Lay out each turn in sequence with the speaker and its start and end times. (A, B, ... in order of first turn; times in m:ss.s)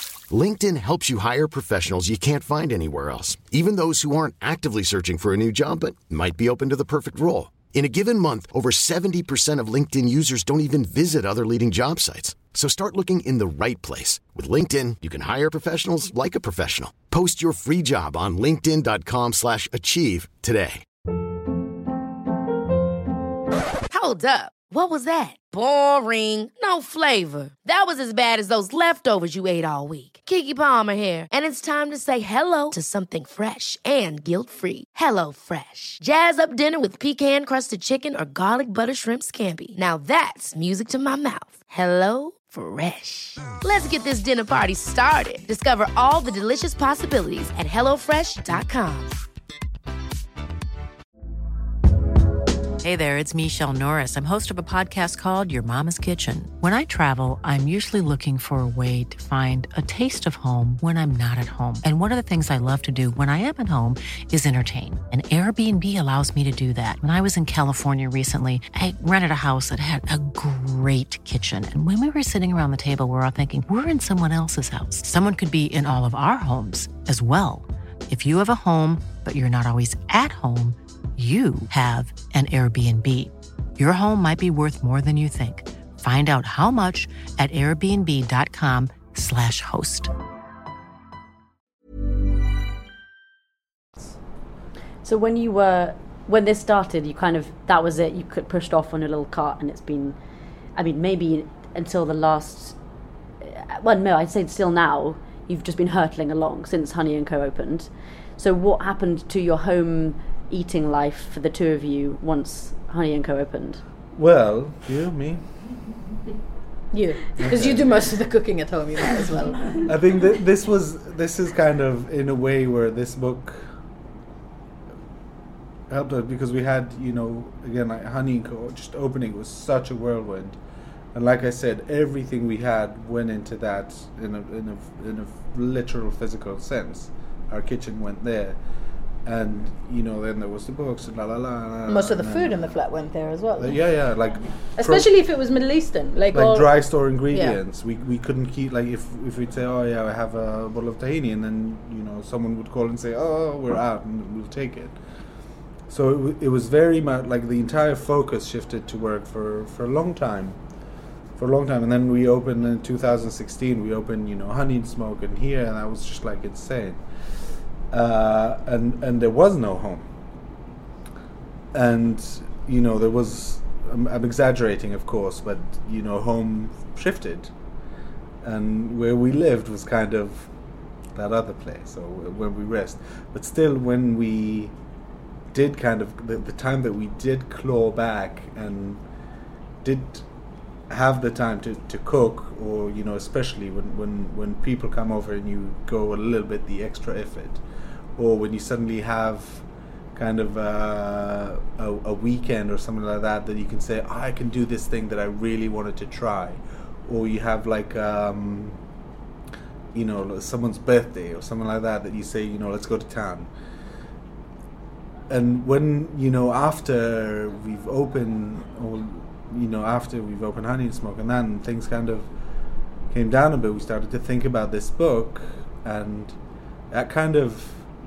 0:00.3-0:20.8 A
0:23.9-0:49.1 B
0:52.8-1:30.1 C
1:35.0-1:40.2 D
1:40.8-1:42.8 D
1:43.4-1:53.8 D
1:54.1-1:55.4 E
1:56.9-1:59.8 F
1:57.4-1:57.8 E
1:59.8-2:03.8 E
2:05.9-2:10.6 E
2:11.1-2:18.6 E
2:19.2-2:22.8 E
2:21.9-2:23.8 F
2:23.6-2:25.1 E
2:24.8-2:27.6 F
2:26.3-2:35.0 E
2:35.9-2:40.6 E
2:41.4-2:47.0 E
2:47.9-2:50.1 E
2:51.7-2:57.5 E
2:58.4-3:00.5 E
3:01.1-3:04.7 E
3:05.5-3:09.0 E
3:09.8-3:10.2 E
3:10.9-3:17.6 E
3:18.2-3:28.8 E
3:29.9-3:33.5 E
3:35.3-3:42.3 E
3:43.1-3:46.4 E
3:46.9-3:47.9 E